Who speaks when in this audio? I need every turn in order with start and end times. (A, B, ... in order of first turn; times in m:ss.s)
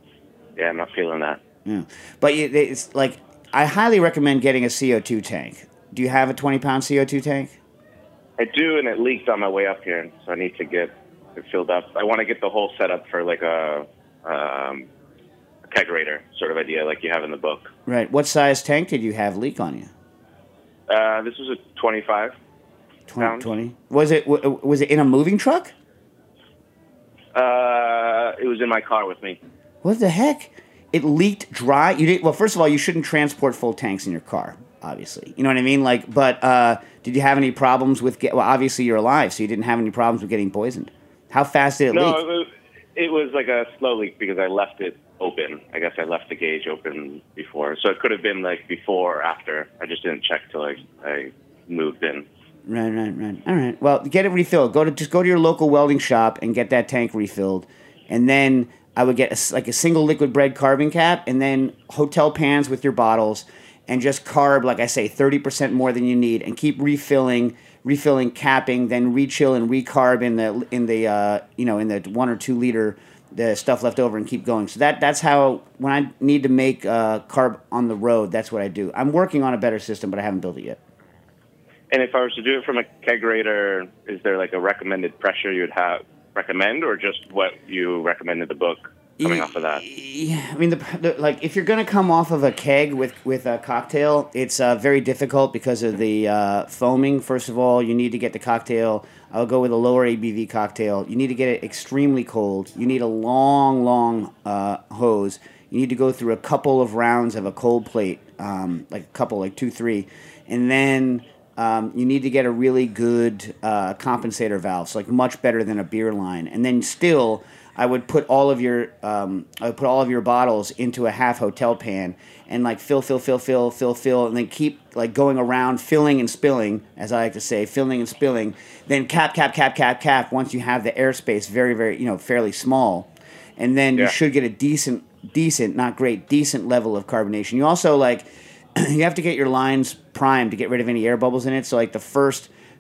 0:00.6-0:01.4 A
0:01.6-0:07.5 B
0:08.4-0:14.9 A
0:15.7-0:17.7 A
0:17.9-0:19.9 B
0:20.9-0:22.4 A
0:23.1-0:25.7 B
0:23.2-0:23.5 A
0:27.3-0:29.4 A
0:29.8-0:42.2 B
0:41.9-0:52.2 A
0:52.7-1:20.8 B
1:21.9-1:29.8 A
1:29.2-2:22.5 B